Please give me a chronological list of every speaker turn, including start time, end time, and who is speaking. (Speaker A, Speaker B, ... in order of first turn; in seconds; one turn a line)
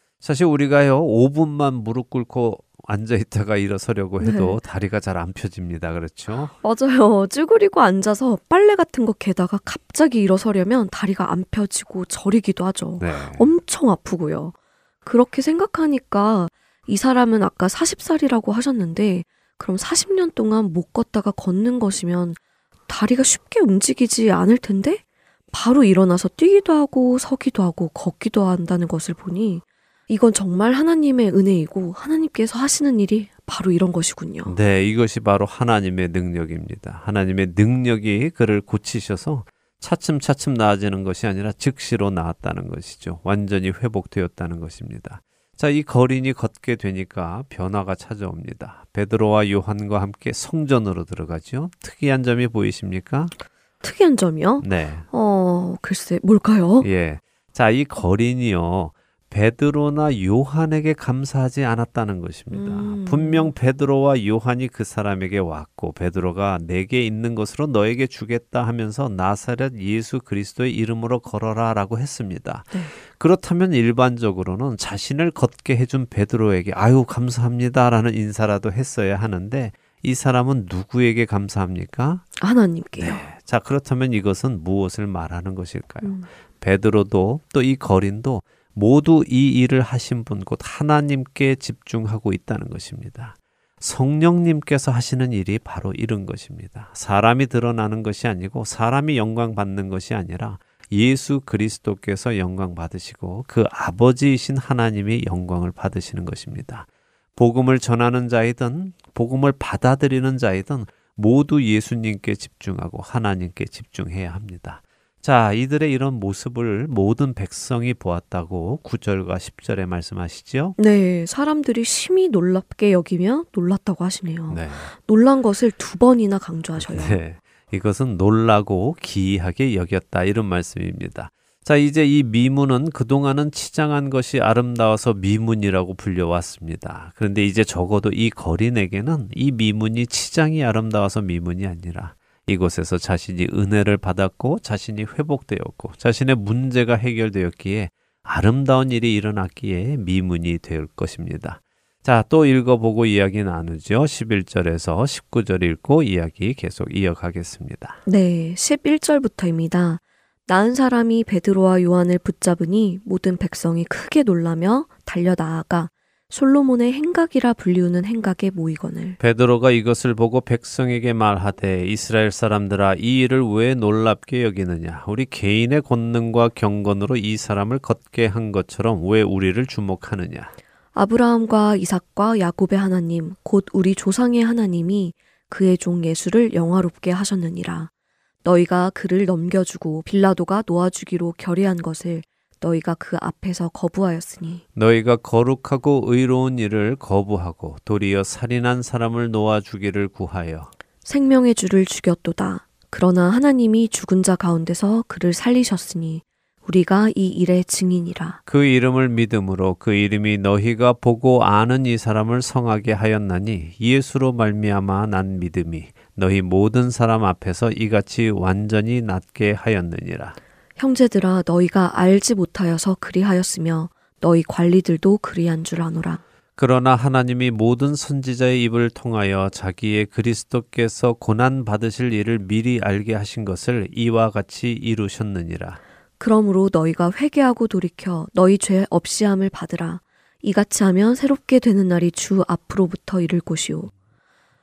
Speaker A: 0.2-6.5
Speaker B: 4.2-4.6
Speaker B: 6.6-34.5
Speaker A: 13.0-13.5
Speaker A: 34.5-53.3
Speaker B: 53.8-56.9
Speaker A: 54.6-55.0
Speaker A: 56.8-82.3
Speaker B: 62.5-63.5
Speaker B: 82.4-83.2
Speaker A: 83.0-120.8
Speaker B: 86.0-86.3
Speaker B: 120.8-127.2
Speaker A: 124.5-124.9
Speaker A: 126.8-158.0
Speaker B: 158.1-169.2
Speaker A: 169.2-180.5
Speaker B: 180.9-187.9
Speaker B: 188.4-194.6
Speaker A: 194.8-200.7
Speaker B: 201.1-208.4
Speaker A: 208.4-220.4
Speaker B: 220.8-226.2
Speaker A: 226.6-235.8
Speaker B: 236.2-243.9